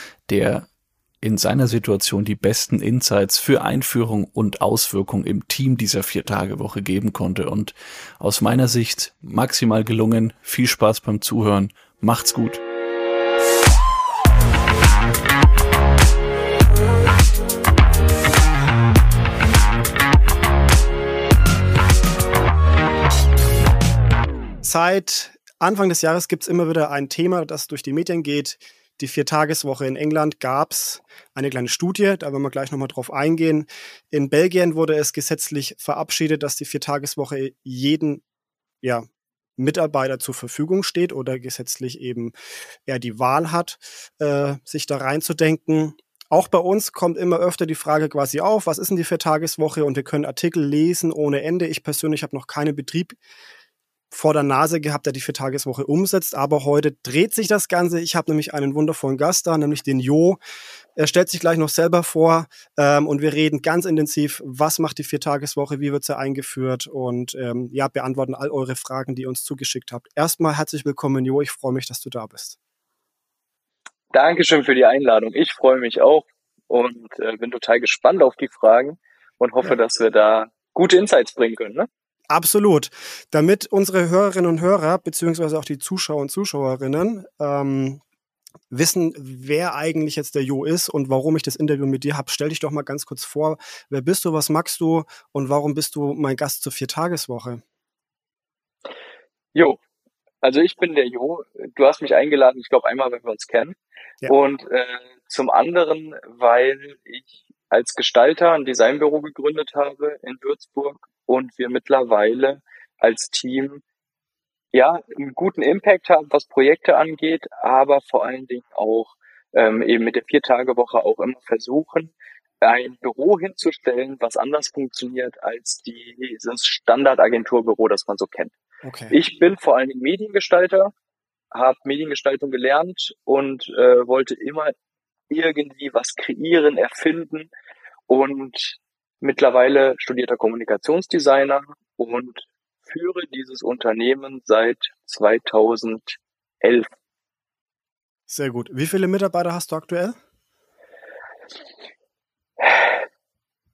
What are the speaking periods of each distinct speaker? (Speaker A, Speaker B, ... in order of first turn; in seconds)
Speaker A: 0.3-0.7, 1.2-12.6
Speaker B: 24.6-38.2, 39.6-42.3, 42.9-53.2, 54.1-60.4, 61.0-72.6, 82.3-88.0, 88.7-97.6, 128.8-129.2, 148.3-150.2
Speaker C: 74.1-81.9, 100.4-113.8, 114.7-128.6, 129.1-130.9, 131.5-134.7, 135.3-137.5, 138.1-146.9, 152.6-153.0